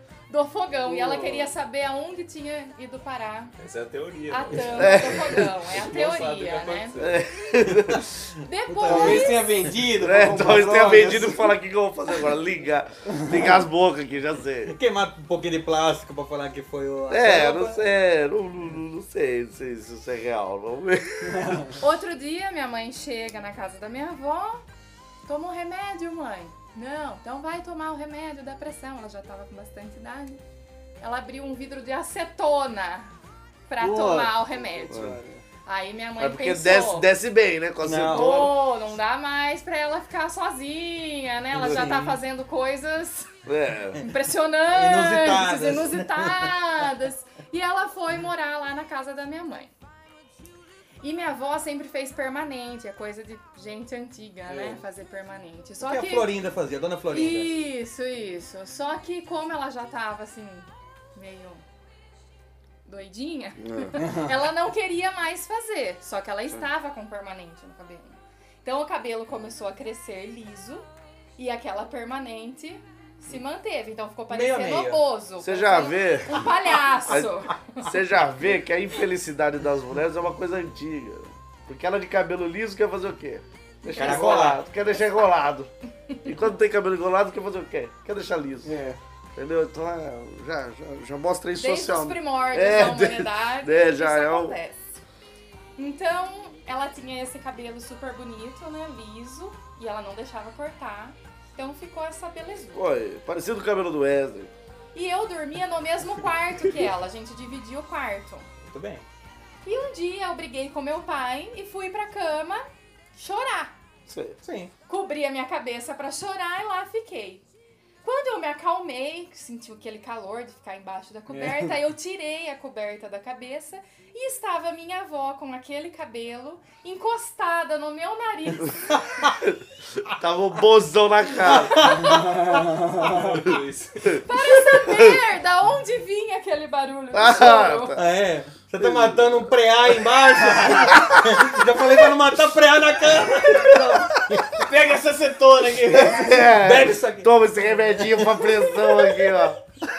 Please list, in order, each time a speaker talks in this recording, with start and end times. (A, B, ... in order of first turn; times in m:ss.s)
0:00.3-0:03.5 A
0:03.6-0:07.2 B
0:04.3-0:07.0 A
0:04.8-0:05.5 C
0:07.0-0:08.1 C
0:08.4-0:09.8 A
0:08.7-0:09.3 D
0:08.8-0:11.5 E
0:10.0-0:14.8 C
0:14.7-0:17.9 D
0:17.1-0:21.6 C
0:21.4-0:21.7 E
0:21.8-0:24.6 A
0:25.2-0:30.4 A
0:31.0-0:33.1 A
0:33.7-0:35.0 A
0:33.8-0:35.4 E
0:34.9-0:35.2 C
0:35.6-0:37.1 A
0:36.2-0:38.6 C
0:37.8-0:38.3 D
0:38.1-0:43.3 A
0:41.6-0:42.2 D
0:43.4-0:44.0 C
0:44.0-0:49.7 A
0:44.7-0:46.5 D
0:51.0-0:56.3 A
0:55.8-0:57.5 D
0:57.1-1:01.6 A
1:02.8-1:10.9 A
1:03.6-1:04.0 C
1:11.4-1:17.9 A
1:14.3-1:15.0 D
1:15.4-1:25.7 C
1:23.9-1:24.6 D
1:26.2-1:28.7 C
1:28.6-1:29.0 E
1:29.4-1:34.6 C
1:31.6-1:34.8 A
1:35.8-1:42.8 A
1:42.7-1:44.5 C
1:44.9-1:48.5 A
1:48.6-1:49.0 D
1:49.6-1:52.6 A
1:53.2-1:53.7 A
1:54.1-1:54.4 C
1:54.4-1:54.7 D
1:54.9-1:57.4 A
1:58.0-2:09.0 A
2:01.3-2:01.7 E
2:08.9-2:09.3 D
2:09.4-2:12.0 C
2:11.5-2:12.1 D
2:11.8-2:12.2 A
2:12.1-2:13.2 E
2:13.0-2:14.2 B
2:14.0-2:15.2 C
2:14.2-2:18.0 A
2:17.1-2:18.0 C
2:17.9-2:24.6 D
2:18.8-2:19.5 C
2:20.7-2:21.6 C
2:23.5-2:24.0 C
2:24.6-2:26.5 E
2:25.9-2:29.6 C
2:26.4-2:28.5 D